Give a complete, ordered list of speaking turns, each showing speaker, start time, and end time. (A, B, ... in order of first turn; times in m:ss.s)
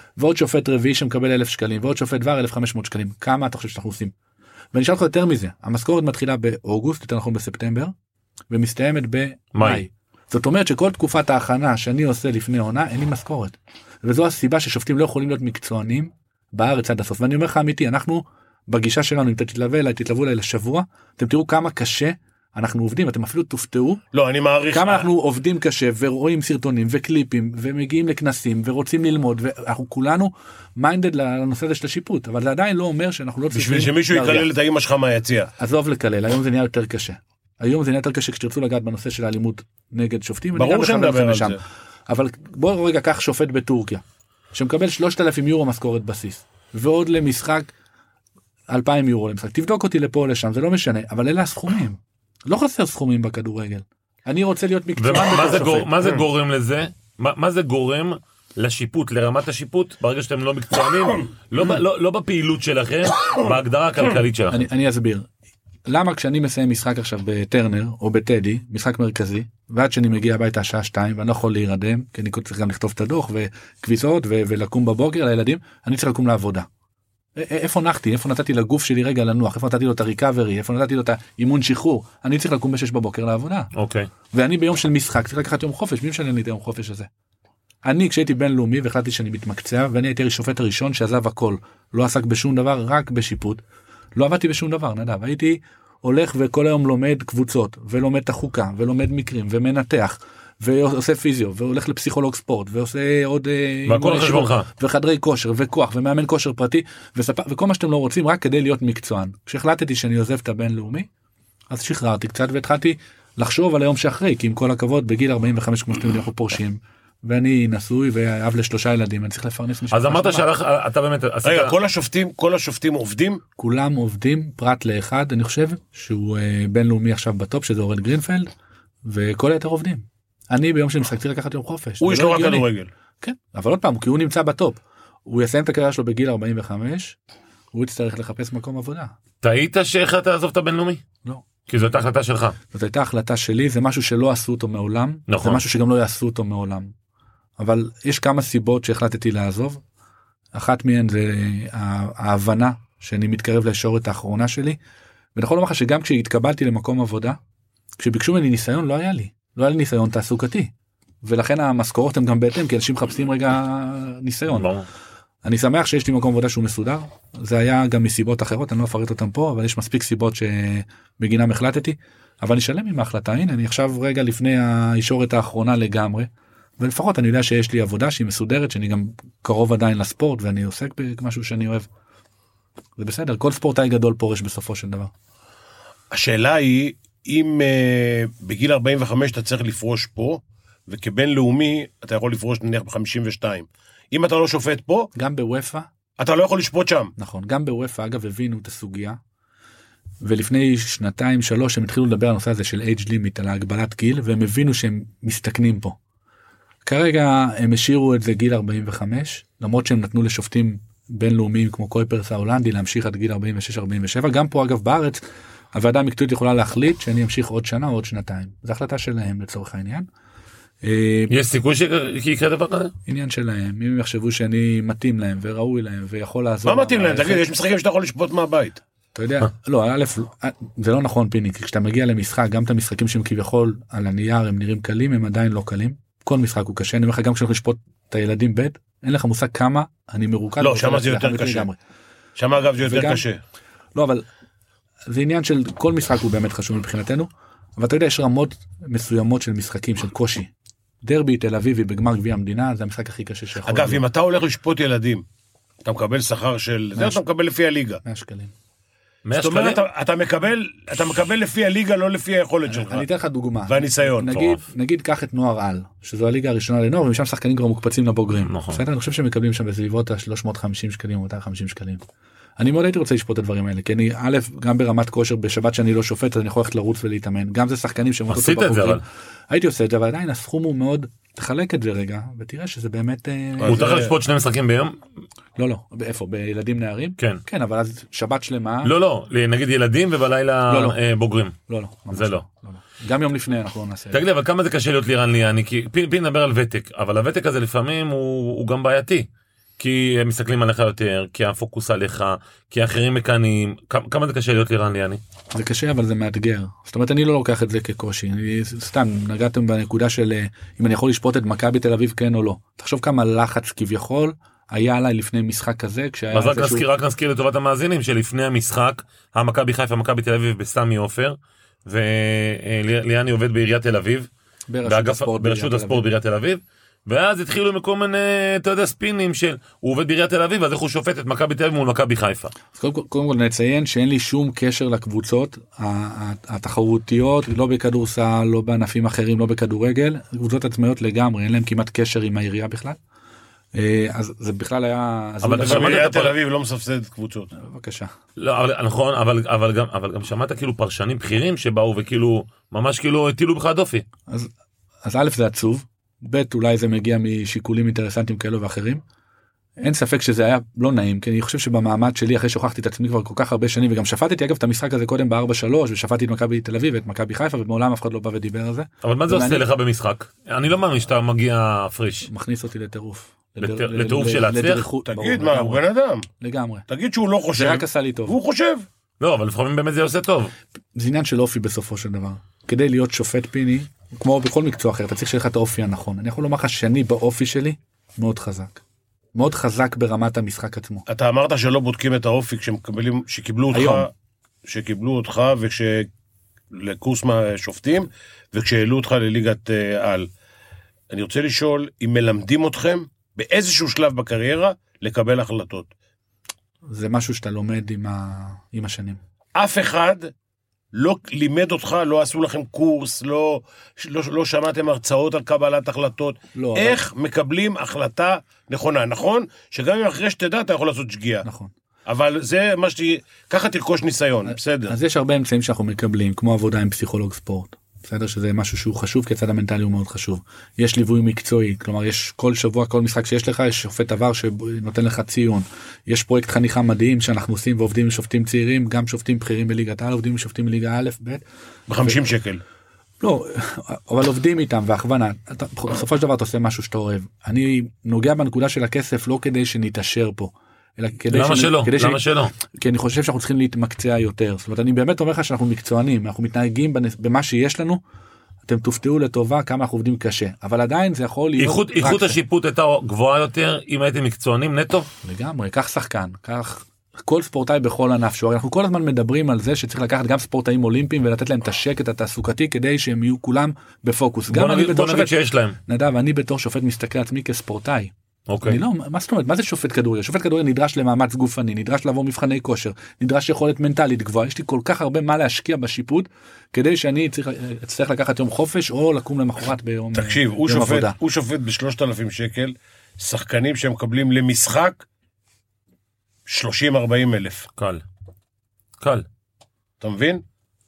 0:00.2-0:04.1 A
0:04.7-0:07.9 A
0:08.5-0:24.0 A
0:09.5-0:09.8 B
0:24.1-0:25.1 C
0:24.7-0:34.5 A
0:33.5-0:35.5 C
0:35.6-0:47.7 A
0:40.5-0:41.6 C
0:48.7-0:56.2 A
0:55.0-1:04.7 B
1:04.5-1:05.3 A
1:05.8-1:16.7 A
1:17.4-1:23.7 A
1:23.7-1:24.1 B
1:24.3-1:27.1 A
1:27.8-1:33.6 A
1:34.1-1:51.1 A
1:43.8-1:44.7 B
1:51.7-2:00.5 A
1:59.9-2:01.8 B
2:01.4-2:03.4 C
2:03.6-2:08.5 A
2:09.0-2:12.7 A
2:12.0-2:12.9 C
2:13.2-2:17.2 A
2:17.7-2:19.1 A
2:19.4-2:21.0 B
2:21.7-2:22.6 B
2:22.7-2:26.9 A
2:25.3-2:25.6 B
2:27.6-2:29.8 A
2:30.5-2:34.8 A
2:35.3-2:37.4 A
2:38.0-2:40.7 A
2:41.2-2:44.7 A
2:44.5-2:44.9 B
2:45.4-3:01.9 A
3:03.0-3:05.1 A
3:06.1-3:15.1 C
3:15.1-3:15.9 A
3:16.2-3:17.1 C
3:17.2-3:19.2 A
3:20.2-3:26.0 A
3:26.8-3:40.1 A
3:40.8-3:41.3 A
3:41.3-3:42.9 B
3:43.0-3:47.4 A
3:46.6-3:48.8 C
3:49.1-4:01.8 A
4:00.6-4:01.7 C
4:02.4-4:03.4 C
4:02.8-4:03.2 A
4:03.9-4:04.2 A
4:05.1-4:10.5 A
4:11.0-4:14.0 A
4:13.6-4:15.2 C
4:15.8-4:18.0 C
4:16.9-4:17.2 A
4:18.0-4:18.5 A
4:19.2-4:19.8 B
4:19.3-4:23.0 C
4:22.6-4:32.0 A
4:23.7-4:24.4 C
4:24.3-4:24.6 B
4:28.4-4:28.8 B
4:32.6-4:44.0 A
4:38.3-4:39.0 B
4:43.6-4:44.1 C
4:43.6-4:45.0 B
4:45.6-4:48.9 A
4:48.8-4:51.6 B
4:50.7-4:51.0 A
4:51.7-4:54.2 A
4:52.1-4:52.4 B
4:54.1-4:59.3 B
4:59.8-5:05.2 B
5:05.5-5:16.8 A
5:16.3-5:24.3 B
5:24.7-5:26.0 A
5:24.8-5:32.5 B
5:32.7-5:43.0 A
5:43.7-5:46.1 A
5:45.4-5:46.3 B
5:45.6-5:47.5 C
5:47.6-5:48.1 A
5:48.4-5:54.0 B
5:55.0-5:59.0 A
5:59.8-6:09.7 A
6:09.0-6:12.3 B
6:12.3-6:15.8 A
6:13.6-6:14.9 B
6:15.0-6:16.3 C
6:16.4-6:16.8 A
6:16.9-6:18.8 C
6:17.5-6:18.4 A
6:19.2-6:20.5 B
6:20.9-6:28.8 A
6:29.3-6:31.0 A
6:31.1-6:34.1 C
6:33.7-6:34.1 A
6:34.6-6:36.1 C
6:36.7-6:40.3 C
6:41.1-6:45.9 C
6:46.9-6:49.2 A
6:49.5-6:50.3 C
6:50.9-7:01.4 C
6:56.5-6:57.0 A
7:01.4-7:01.7 A
7:02.0-7:04.9 C
7:04.4-7:21.4 A
7:21.9-7:22.6 C
7:23.2-7:38.0 A
7:31.3-7:32.5 B
7:38.6-7:42.4 A
7:41.6-7:45.1 B
7:45.2-7:58.1 A
7:54.5-7:55.8 B
7:58.5-7:58.8 B
7:58.6-8:11.2 A
8:10.1-8:15.0 C
8:16.5-8:17.7 C
8:17.8-8:18.0 B
8:19.0-8:19.2 B
8:20.0-8:20.4 C